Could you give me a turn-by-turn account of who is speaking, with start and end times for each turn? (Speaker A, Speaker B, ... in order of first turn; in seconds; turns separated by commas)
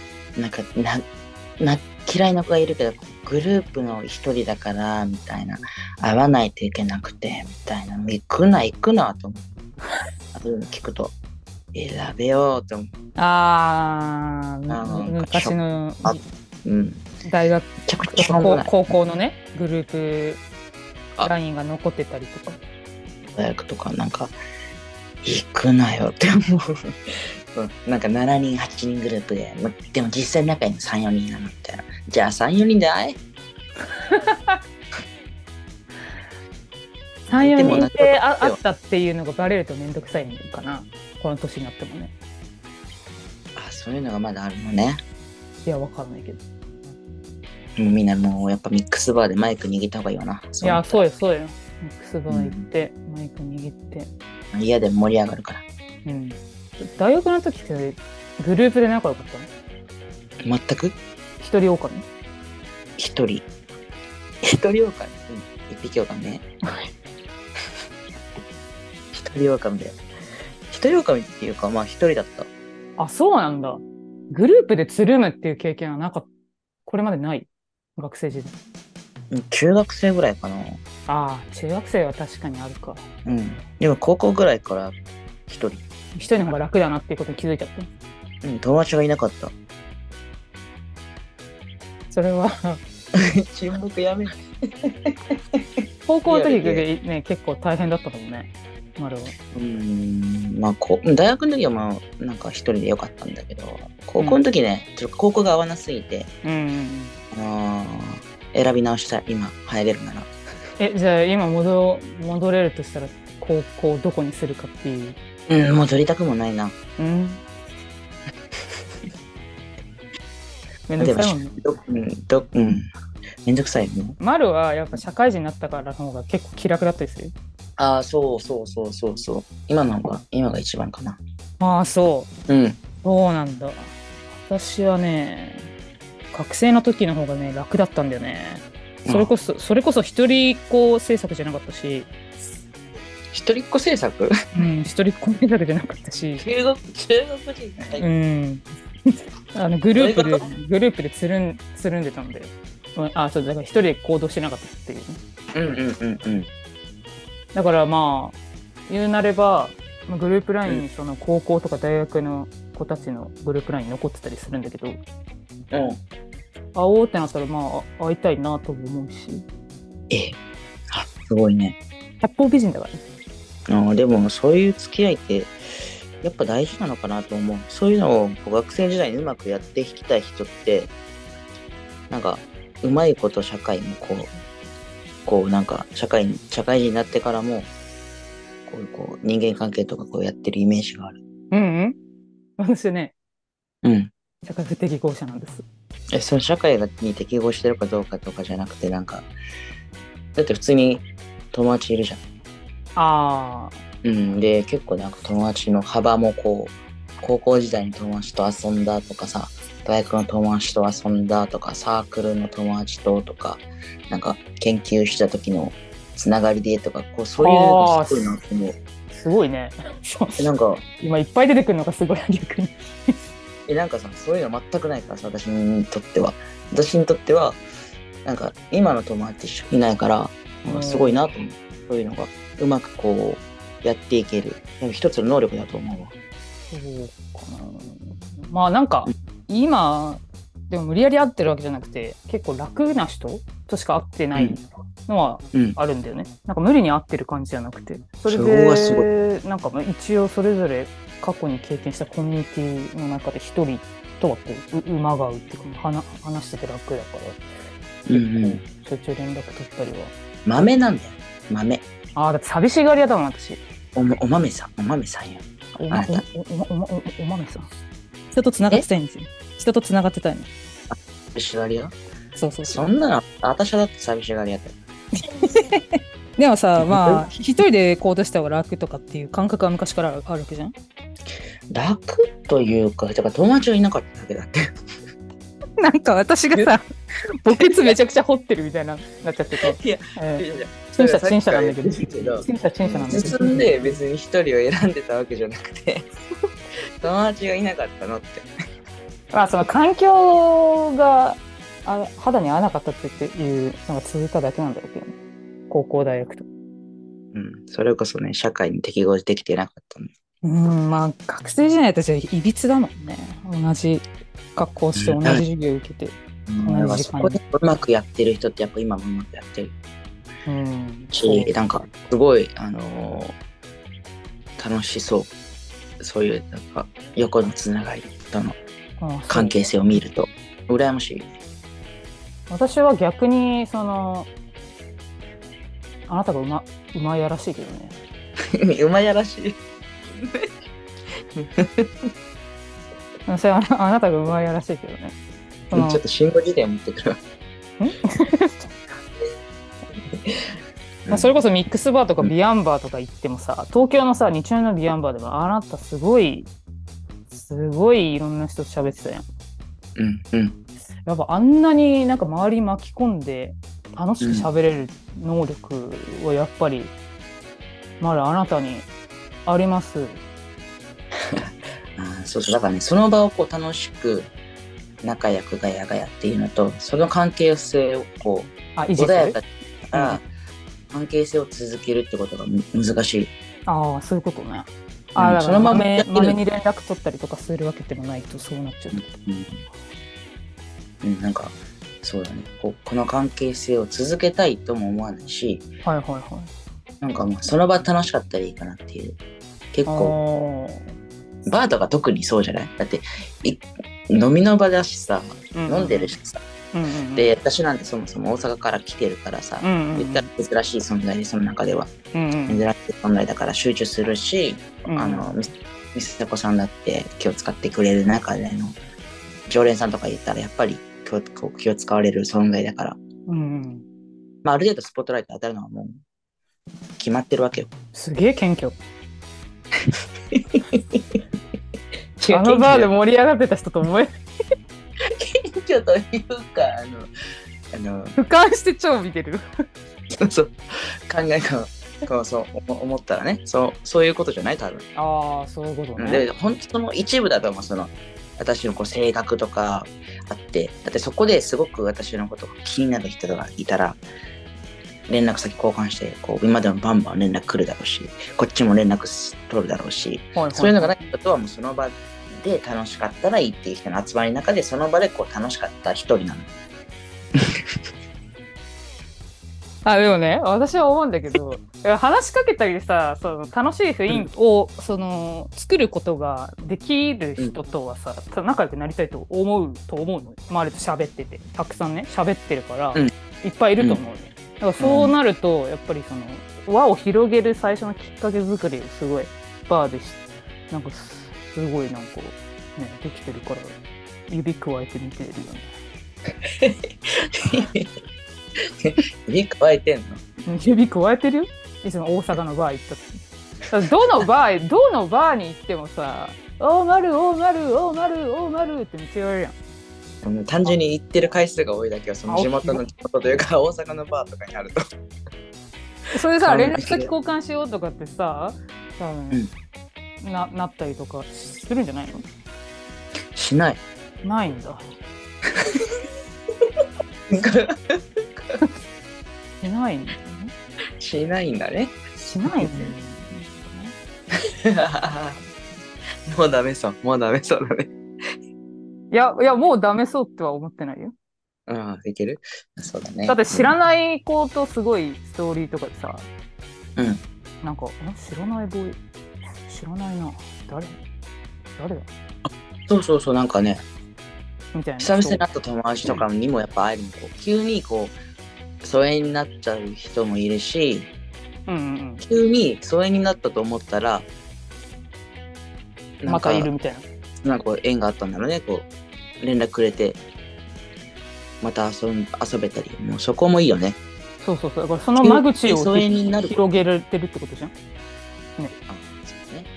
Speaker A: 0.3-1.0, Speaker A: 1.6-9.5, Speaker A: 10.3-11.1, Speaker A: 11.7-12.9, Speaker B: 13.2-16.2, Speaker A: 14.7-17.1, Speaker B: 17.2-20.4, Speaker A: 17.9-18.9, Speaker B: 21.2-22.6, Speaker A: 23.2-24.3, Speaker A: 25.2-33.2, Speaker B: 33.9-34.6, Speaker B: 37.3-42.1, Speaker A: 37.3-38.6, Speaker A: 43.5-45.0, Speaker B: 45.6-46.4, Speaker A: 47.8-51.0, Speaker B: 50.6-54.1, Speaker A: 52.3-52.7, Speaker A: 54.5-55.6, Speaker B: 56.0-56.4, Speaker B: 57.0-59.5, Speaker A: 60.4-61.0, Speaker B: 61.4-62.0, Speaker A: 63.0-63.5, Speaker A: 64.4-66.4, Speaker A: 69.1-70.0, Speaker A: 70.7-72.5, Speaker B: 73.0-76.3, Speaker B: 76.8-78.5, Speaker A: 79.3-80.8, Speaker B: 81.1-83.0, Speaker A: 83.2-84.9, Speaker A: 85.5-85.8, Speaker B: 86.1-87.9, Speaker A: 88.4-89.5, Speaker B: 92.1-92.8, Speaker A: 93.1-95.6, Speaker B: 96.1-99.3, Speaker A: 96.3-96.8, Speaker A: 99.5-106.3, Speaker B: 106.4-107.1, Speaker A: 107.3-110.3, Speaker B: 110.8-115.2, Speaker A: 115.5-116.7, Speaker B: 117.0-117.4, Speaker B: 120.9-121.5, Speaker A: 121.0-122.9, Speaker A: 123.4-124.2, Speaker B: 124.2-127.3, Speaker A: 127.8-131.2, Speaker B: 131.6-132.3, Speaker A: 132.5-132.8, Speaker B: 133.0-135.7, Speaker B: 136.3-142.1, Speaker A: 139.0-139.3, Speaker A: 143.3-144.3, Speaker B: 144.5-146.4, Speaker A: 146.4-148.1, Speaker B: 148.0-155.2, Speaker A: 149.9-150.4, Speaker A: 155.5-156.5, Speaker B: 157.5-165.0, Speaker A: 165.7-166.0, Speaker B: 166.7-169.4, Speaker A: 170.1-170.3, Speaker A: 170.9-171.8, Speaker B: 172.2-173.0, Speaker A: 173.7-175.5, Speaker A: 176.2-180.9, Speaker A: 182.1-184.3, Speaker A: 185.2-187.7, Speaker A: 188.7-191.2, Speaker B: 191.5-192.0, Speaker B: 192.6-193.1, Speaker A: 193.8-194.1, Speaker B: 194.4-195.6, Speaker A: 196.1-199.3, Speaker A: 200.3-202.2, Speaker B: 202.9-203.8, Speaker A: 204.0-218.8, Speaker B: 217.4-218.3, Speaker B: 219.1-223.2, Speaker A: 220.4-220.8, Speaker A: 223.7-227.6, Speaker A: 228.2-236.1, Speaker B: 230.7-231.2, Speaker B: 236.7-257.4, Speaker A: 248.3-249.1, Speaker A: 258.1-258.6, Speaker B: 258.1-260.1, Speaker A: 260.4-261.8, Speaker B: 262.1-263.6, Speaker A: 263.9-266.2, Speaker B: 265.7-267.7, Speaker B: 268.3-270.5, Speaker A: 270.9-271.9, Speaker B: 272.4-272.8, Speaker A: 272.6-274.8, Speaker B: 275.1-280.7, Speaker A: 276.8-277.3, Speaker A: 281.7-284.6, Speaker B: 285.8-286.9, Speaker B: 287.4-293.9, Speaker A: 287.5-287.9, Speaker A: 289.6-296.0, Speaker A: 297.0-298.5, Speaker B: 299.3-305.1, Speaker B: 305.7-306.4, Speaker A: 307.3-310.1, Speaker B: 310.4-317.4, Speaker A: 314.9-315.4, Speaker A: 316.5-319.7, Speaker B: 320.4-321.5, Speaker A: 321.1-323.4, Speaker A: 324.6-325.3, Speaker A: 326.0-328.6, Speaker B: 329.0-329.6, Speaker A: 329.3-331.3, Speaker B: 332.5-334.3, Speaker B: 336.1-337.9, Speaker A: 338.6-339.6, Speaker A: 340.1-340.5, Speaker A: 341.4-341.9, Speaker B: 343.3-345.1, Speaker B: 345.7-346.0, Speaker A: 345.7-347.2, Speaker B: 347.8-348.8, Speaker A: 350.1-350.5, Speaker A: 351.0-351.4, Speaker B: 351.1-356.5, Speaker B: 357.3-359.2, Speaker A: 359.9-360.6, Speaker B: 361.1-366.9, Speaker A: 364.2-364.5, Speaker B: 368.0-368.9, Speaker B: 369.4-370.2, Speaker A: 371.3-374.3, Speaker A: 375.0-380.2, Speaker B: 378.8-379.4, Speaker B: 379.9-380.2, Speaker A: 380.9-383.3, Speaker B: 383.7-389.1, Speaker A: 385.2-386.4, Speaker A: 388.9-389.6, Speaker A: 391.0-395.6, Speaker B: 395.8-396.5, Speaker A: 397.0-399.2, Speaker A: 399.7-400.1, Speaker B: 399.9-400.9, Speaker A: 401.4-406.4, Speaker B: 405.5-406.1, Speaker B: 406.7-407.3, Speaker A: 407.1-411.9, Speaker B: 409.6-410.3, Speaker B: 412.1-412.7, Speaker A: 412.5-418.8, Speaker B: 414.9-415.3, Speaker A: 419.5-423.0, Speaker B: 423.3-423.8, Speaker A: 424.4-426.0, Speaker A: 427.0-427.7, Speaker B: 427.9-428.8, Speaker A: 429.9-431.2, Speaker A: 432.2-432.9, Speaker B: 432.3-434.1, Speaker A: 435.1-437.1, Speaker A: 437.7-438.1, Speaker B: 438.1-439.4, Speaker A: 440.2-444.8, Speaker B: 444.9-446.2, Speaker A: 446.0-454.0, Speaker A: 455.1-466.5, Speaker B: 460.3-461.1, Speaker B: 469.8-493.8, Speaker A: 484.8-485.1, Speaker B: 494.3-495.8, Speaker A: 496.4-497.9, Speaker A: 498.8-500.2, Speaker B: 500.4-503.1, Speaker B: 503.7-509.6, Speaker A: 510.2-514.8, Speaker B: 512.3-512.8, Speaker B: 516.1-519.4, Speaker A: 516.4-517.1, Speaker B: 520.2-522.2, Speaker A: 523.3-523.8, Speaker B: 524.2-524.8, Speaker A: 525.6-525.8, Speaker A: 527.3-528.6, Speaker B: 529.6-530.5, Speaker A: 531.0-532.9, Speaker B: 532.2-533.9, Speaker A: 534.4-535.4, Speaker A: 536.3-537.9, Speaker B: 539.1-541.1, Speaker A: 541.7-543.7, Speaker B: 543.3-546.3, Speaker A: 547.0-547.2, Speaker B: 547.6-549.0, Speaker B: 549.6-551.0, Speaker B: 551.8-552.1, Speaker A: 552.5-553.8, Speaker B: 554.7-555.5, Speaker A: 555.0-558.2, Speaker A: 558.8-561.1, Speaker B: 561.7-562.2, Speaker A: 562.2-564.3, Speaker A: 566.2-566.7, Speaker B: 566.2-567.0, Speaker A: 567.4-568.9, Speaker A: 569.4-570.2, Speaker A: 571.6-574.0, Speaker B: 574.4-577.7, Speaker A: 575.2-576.6, Speaker A: 578.9-579.7